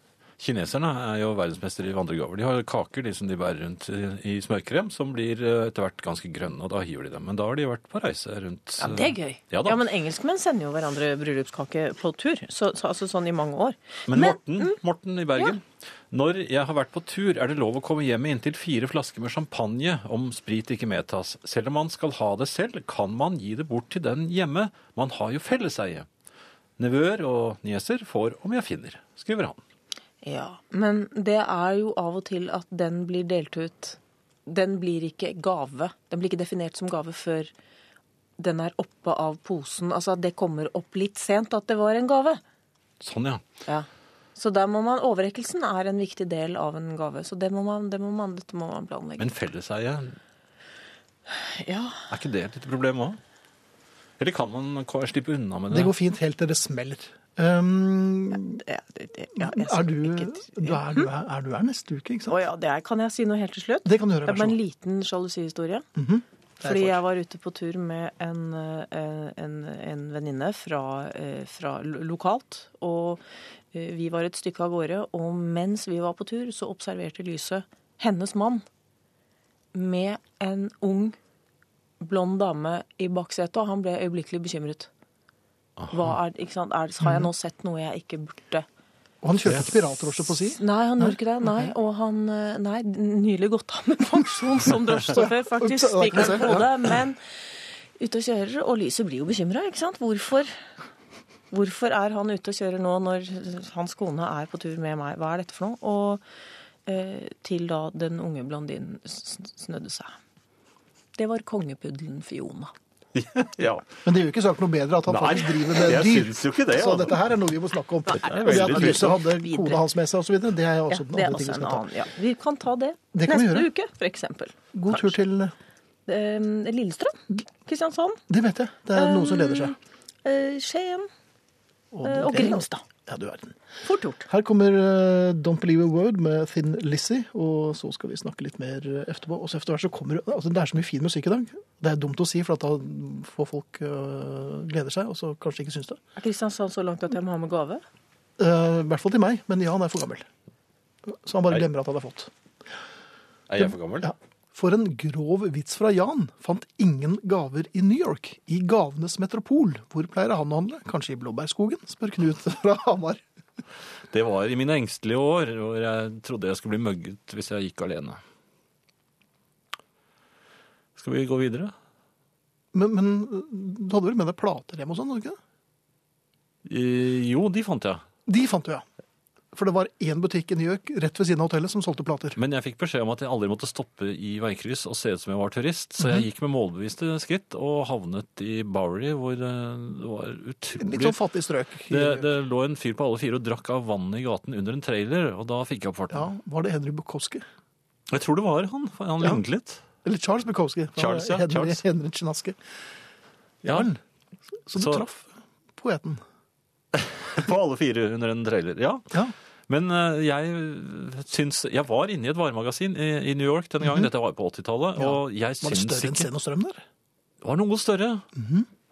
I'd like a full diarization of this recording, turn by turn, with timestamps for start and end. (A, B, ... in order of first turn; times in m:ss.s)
0:00.4-0:09.8 A
0:08.8-0:14.8 B
0:14.1-0:26.1 A
0:26.8-0:29.6 A
0:30.2-0:37.5 B
0:38.4-0:42.4 B
0:43.0-0:43.4 A
0:43.7-0:49.3 B
0:49.2-0:50.1 A
0:51.3-0:52.1 B
0:52.1-0:53.2 A
0:54.2-0:55.9 A
0:55.7-0:58.6 C
0:58.5-1:01.1 B
0:59.4-1:02.4 C
1:02.3-1:05.9 B
1:03.8-1:04.6 C
1:06.0-1:07.0 C
1:06.6-1:13.2 B
1:13.7-1:18.6 B
1:19.7-1:21.2 B
1:22.0-1:24.9 B
1:25.8-1:26.1 A
1:25.9-1:28.6 B
1:29.2-1:31.1 C
1:30.6-1:37.2 B
1:35.1-1:36.7 C
1:38.0-1:40.6 B
1:41.5-1:46.2 B
1:46.9-1:50.2 B
1:51.2-1:52.7 B
1:53.1-1:53.9 A
1:54.0-2:01.9 C
1:55.1-1:57.2 A
1:58.1-1:59.2 A
1:58.2-1:59.8 B
2:00.9-2:05.2 B
2:03.1-2:03.7 C
2:04.7-2:05.5 C
2:06.1-2:08.2 B
2:08.3-2:09.8 C
2:08.9-2:11.1 B
2:11.9-2:13.5 C
2:12.0-2:12.8 B
2:13.8-2:14.3 B
2:14.3-2:26.0 C
2:26.2-2:27.8 B
2:28.4-2:30.2 C
2:31.1-2:32.3 C
2:33.5-2:34.1 A
2:33.6-2:43.2 C
2:44.1-2:48.2 A
2:51.0-2:51.7 A
2:52.7-2:55.4 C
2:56.6-2:58.0 A
2:58.3-2:58.8 C
2:59.5-3:02.4 C
3:02.4-3:11.2 A
3:10.8-3:12.3 C
3:11.9-3:16.3 A
3:16.1-3:17.4 C
3:18.1-3:19.8 A
3:20.0-3:22.6 C
3:21.0-3:21.8 A
3:23.6-3:24.0 C
3:24.7-3:26.2 C
3:24.7-3:25.0 A
3:26.9-3:29.1 A
3:29.7-3:36.3 A
3:33.8-3:34.1 C
3:35.0-3:36.8 C
3:37.4-3:38.2 A
3:38.4-3:38.7 C